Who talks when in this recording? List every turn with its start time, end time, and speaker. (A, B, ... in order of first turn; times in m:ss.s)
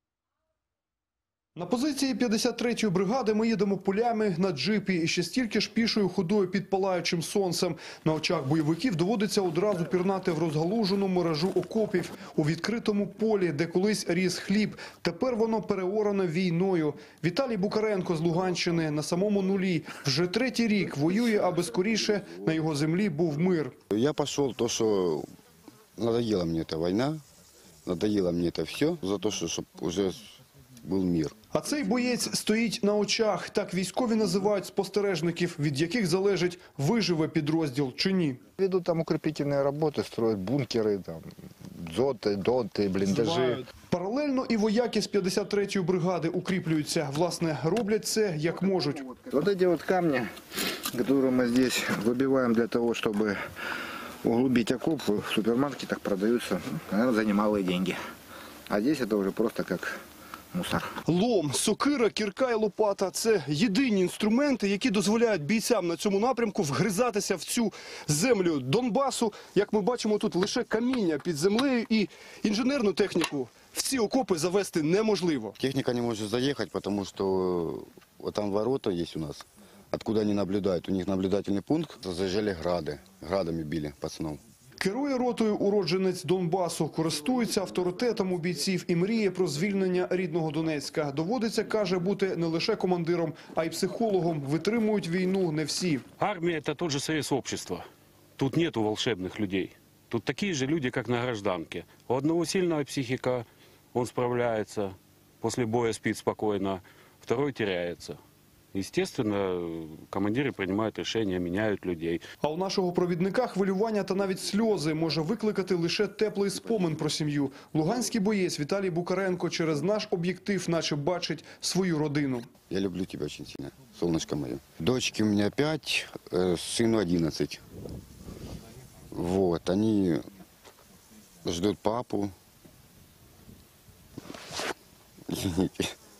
0:01.6-0:23.8 A
0:23.9-0:25.3 B
0:26.0-0:27.2 B
0:27.8-0:31.4 B
0:31.5-0:38.4 A
0:38.6-0:43.6 C
0:43.1-0:49.1 A
0:49.0-0:50.3 C
0:50.9-0:53.4 C
0:54.2-0:58.0 C
0:58.7-1:00.0 C
1:00.5-1:00.9 C
1:01.1-1:15.6 A
1:15.6-1:24.4 B
1:24.8-1:36.0 A
1:36.2-1:37.8 D
1:38.4-1:48.2 D
1:48.7-1:52.2 D
1:52.4-2:02.5 A
2:02.7-2:07.6 B
2:09.1-2:10.2 B
2:11.4-2:12.3 B
2:15.3-2:15.9 B